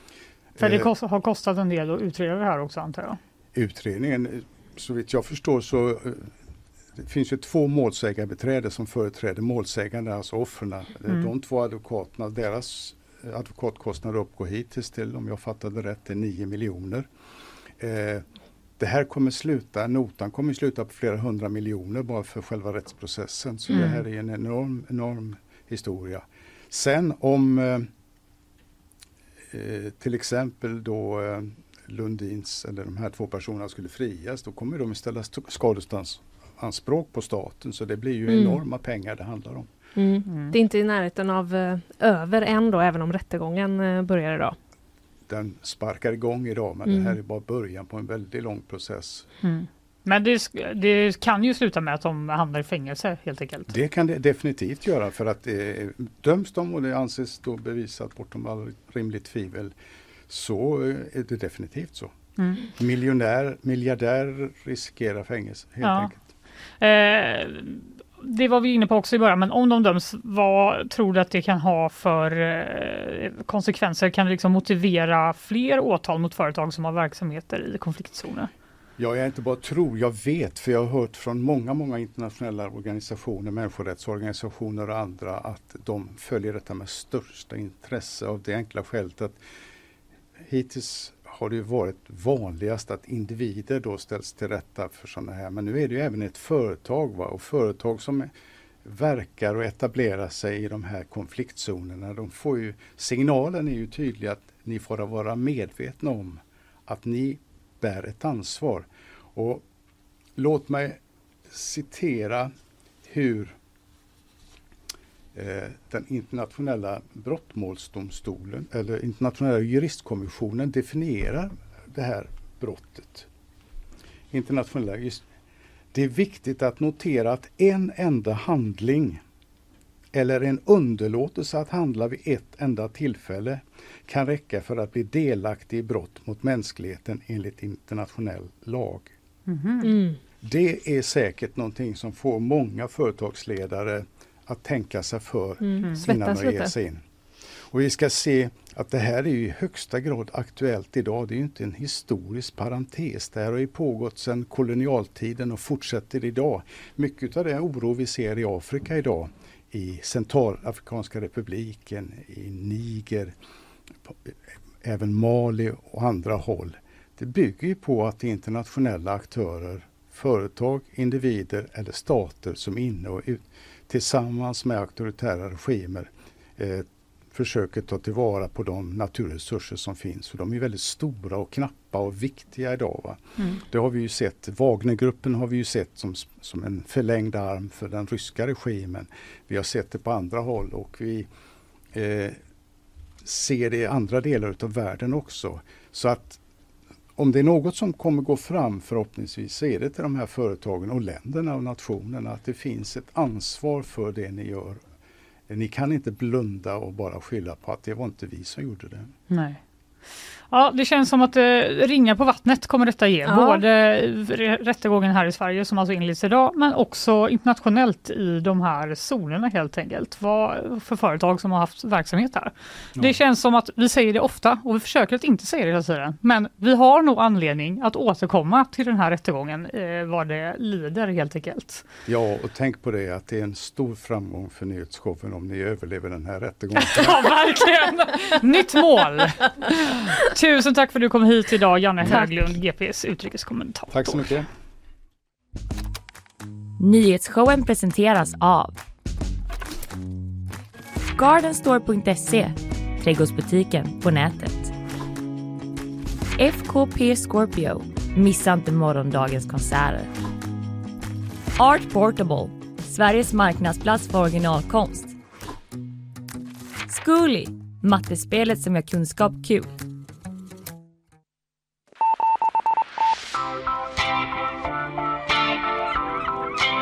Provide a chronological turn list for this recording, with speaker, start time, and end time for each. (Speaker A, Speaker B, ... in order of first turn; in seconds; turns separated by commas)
Speaker A: 0.6-0.9, Speaker B: 0.6-3.2, Speaker A: 3.5-6.3, Speaker A: 7.0-17.1, Speaker A: 17.8-18.2, Speaker A: 18.8-27.9, Speaker B: 23.7-24.0, Speaker A: 29.5-39.7, Speaker C: 38.3-38.6, Speaker C: 40.0-44.5, Speaker B: 40.3-40.5, Speaker A: 45.3-49.3, Speaker C: 46.9-47.1, Speaker B: 49.4-53.7, Speaker A: 53.7-59.7, Speaker A: 60.3-62.1, Speaker B: 62.4-62.6, Speaker A: 62.8-66.2, Speaker B: 65.8-66.1, Speaker B: 66.8-78.5, Speaker A: 79.0-89.4, Speaker A: 90.5-98.3, Speaker A: 98.8-109.6, Speaker A: 110.4-111.0, Speaker A: 111.5-112.5, Speaker A: 113.1-113.5, Speaker A: 115.3-123.3, Speaker A: 124.3-125.2, Speaker A: 125.9-129.2, Speaker A: 130.1-139.1, Speaker B: 139.5-139.9, Speaker C: 139.8-140.2, Speaker A: 140.4-147.0, Speaker C: 145.6-146.7, Speaker A: 147.7-163.3, Speaker A: 164.8-191.3, Speaker A: 191.9-192.4, Speaker A: 193.2-196.4, Speaker A: 197.2-204.8, Speaker A: 205.5-209.1, Speaker B: 209.3-209.6, Speaker B: 210.5-231.8, Speaker C: 213.2-213.6, Speaker A: 232.1-237.3, Speaker B: 236.8-244.3, Speaker A: 243.9-244.5, Speaker D: 246.8-248.8, Speaker D: 251.2-254.7, Speaker D: 256.4-260.1, Speaker D: 261.6-265.1, Speaker D: 266.9-269.7